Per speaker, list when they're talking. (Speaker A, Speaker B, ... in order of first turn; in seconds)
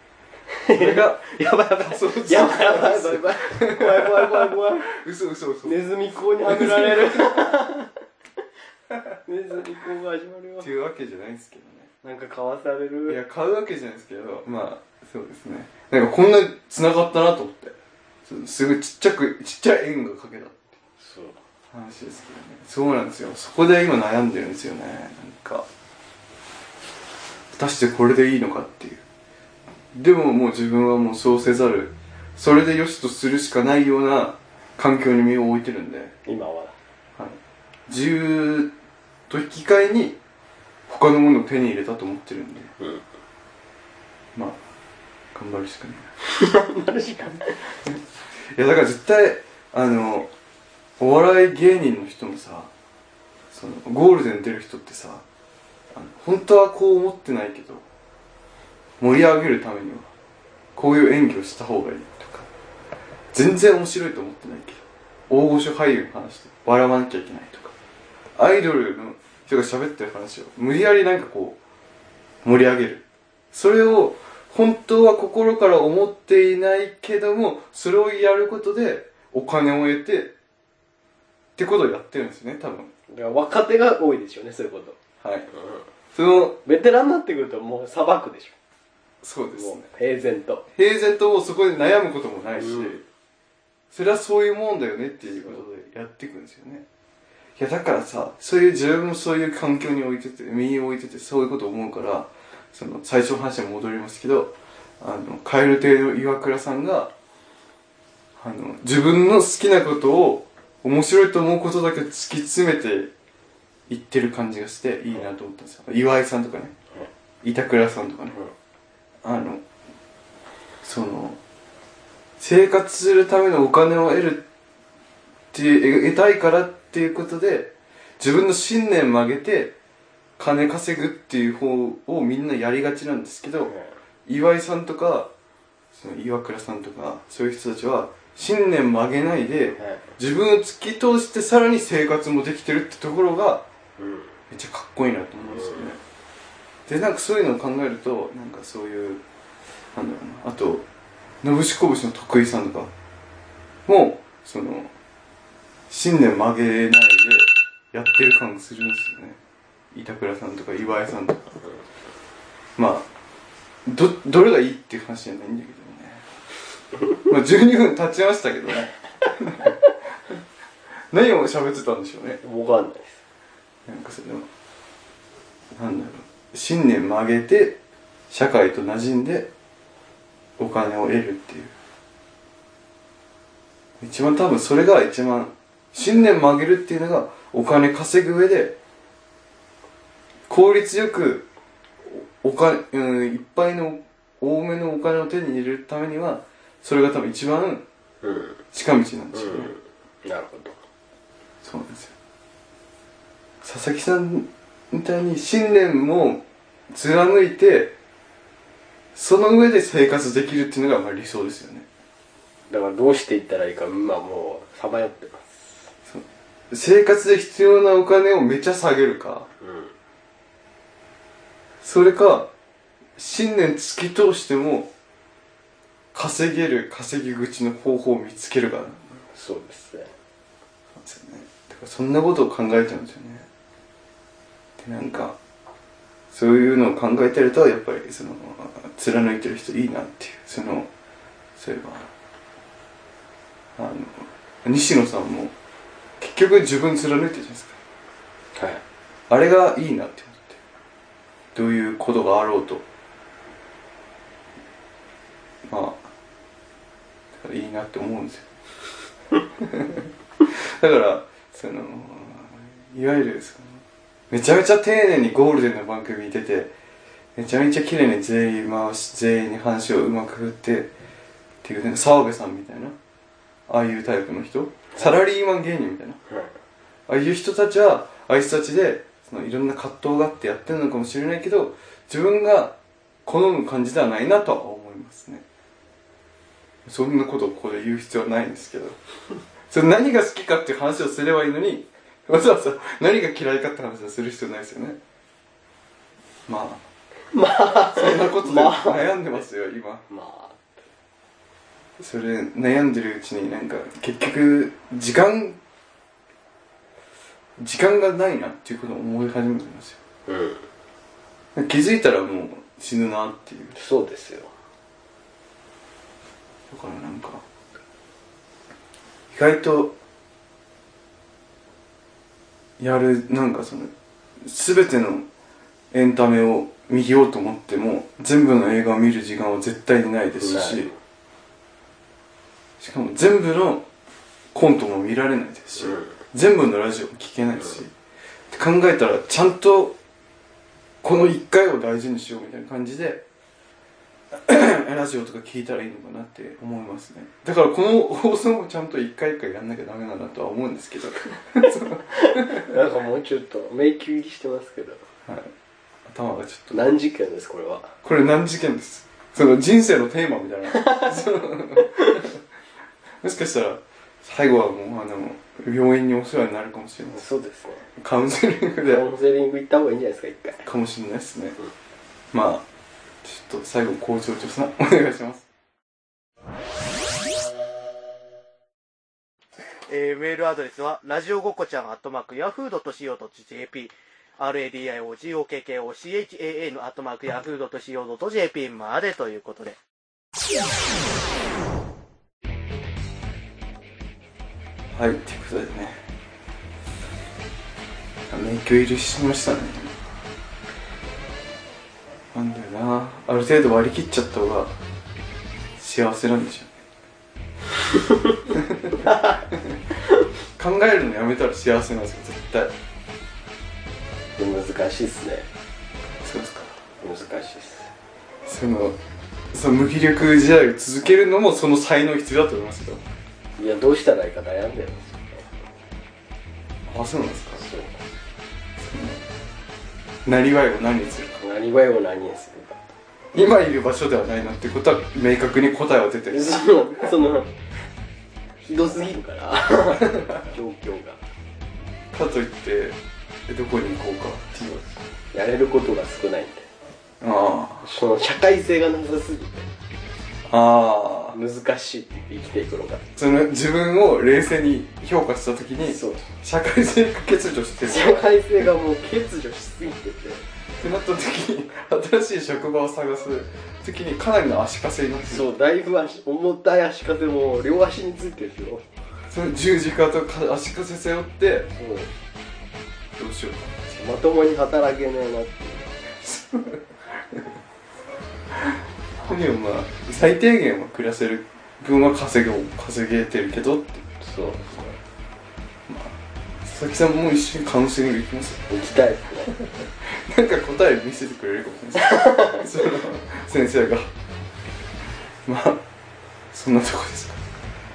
Speaker A: 0.5-4.9, 5.6-8.0, 9.2-10.7, 12.0-13.2, 21.0-21.4, 36.2-36.8, 46.3-47.6, 83.1-85.0, 85.5-85.9, 86.6-88.5, 89.5-90.6, 92.5-93.0, 95.3-95.6, 133.7-133.9, 139.8-140.1, 144.0-144.3, 145.5-145.9, 172.4-173.2, 198.2-198.6, 199.3-200.8, 212.7-215.8, 219.6-219.9, 229.3-230.1, 248.6-248.8, 276.3-276.5, 297.3-299.4, 300.1-300.8, 310.3-310.6, 313.7-314.5, 330.4-330.9, 352.1-355.0, 356.7-357.9, 360.7-361.2, 367.1-367.9, 368.8-370.6, 414.4-415.5, 417.0-417.9, 423.6-425.5, 427.6-428.0, 431.4-432.8, 436.3-437.5, 438.6-441.2, 445.3-446.7, 447.8-449.7, 451.3-453.0, 455.9-456.3, 457.9-460.4, 465.2-468.9, 471.7-472.1, 474.0-475.9, 484.2-485.0, 488.7-489.6, 492.0-492.6
Speaker B: 0.7-7.5, 10.6-11.9, 13.1-20.6, 21.7-25.7, 27.5-29.0, 29.9-36.1, 37.9-38.7, 39.3-40.2, 40.9-42.7, 45.3-46.1, 48.5-50.3, 51.0-52.7, 53.5-55.2, 55.9-57.8, 59.0-60.1, 60.8-62.5, 63.3-67.7, 68.4-71.6, 72.4-80.3, 81.6-82.9, 85.2-85.5, 86.1-86.6, 89.2-89.8, 90.8-93.0, 93.9-96.8, 97.5-107.1, 108.4-113.1, 113.9-116.7, 117.4-118.4, 119.2-119.6, 120.8-121.4, 122.4-124.4, 125.5-129.8, 130.4-133.7, 134.2-135.3, 135.9-143.6, 144.5-146.0, 146.9-149.2, 149.9-150.8, 151.4-152.9, 153.9-154.9, 155.9-159.4, 159.9-161.6, 162.8-163.1, 163.9-166.2, 167.2-169.8, 171.1-172.4, 173.9-174.5, 175.8-177.8, 178.3-179.5, 180.6-181.7, 184.0-188.8, 190.5-191.5, 192.0-197.8, 198.7-199.7, 201.6-202.1, 203.6-207.9, 209.1-211.9, 216.1-219.5, 221.8-222.5, 223.2-224.9, 226.1-229.0, 230.9-233.5, 234.8-235.4, 236.3-240.9, 241.6-242.1, 243.8-245.5, 246.2-247.8, 249.3-250.6, 251.5-252.8, 255.7-256.0, 257.4-258.5, 259.6-266.7, 267.4-270.9, 271.6-272.9, 273.7-276.2, 277.1-285.4, 286.9-288.9, 289.7-295.0, 296.5-296.8, 297.9-300.1, 302.0-305.6, 307.6-310.0, 311.5-313.8, 316.7-317.4, 319.3-319.9, 322.8-323.9, 324.4-325.2, 325.9-330.9, 332.8-333.8, 334.5-337.9, 338.5-339.9, 341.0-343.2, 344.3-352.7, 355.2-355.5, 356.1-356.8, 358.0-362.3, 363.2-367.2, 368.0-369.1, 370.6-371.6, 372.3-372.6, 373.2-375.4, 394.9-396.0, 398.3-400.0, 402.3-404.8, 405.8-406.8, 408.5-409.8, 410.6-412.7, 416.2-416.8, 418.4-418.9, 419.5-423.0, 426.9-427.6, 428.8-429.2, 430.2-431.4, 433.3-437.1, 442.1-444.9, 447.2-447.9, 450.5-451.4, 453.1-458.7, 460.8-465.5, 469.3-471.7, 473.2-474.1, 476.2-477.5, 478.6-484.0, 485.9-488.7, 489.6-494.1, 495.4-495.8, 496.5-497.4
Speaker C: 379.7-389.8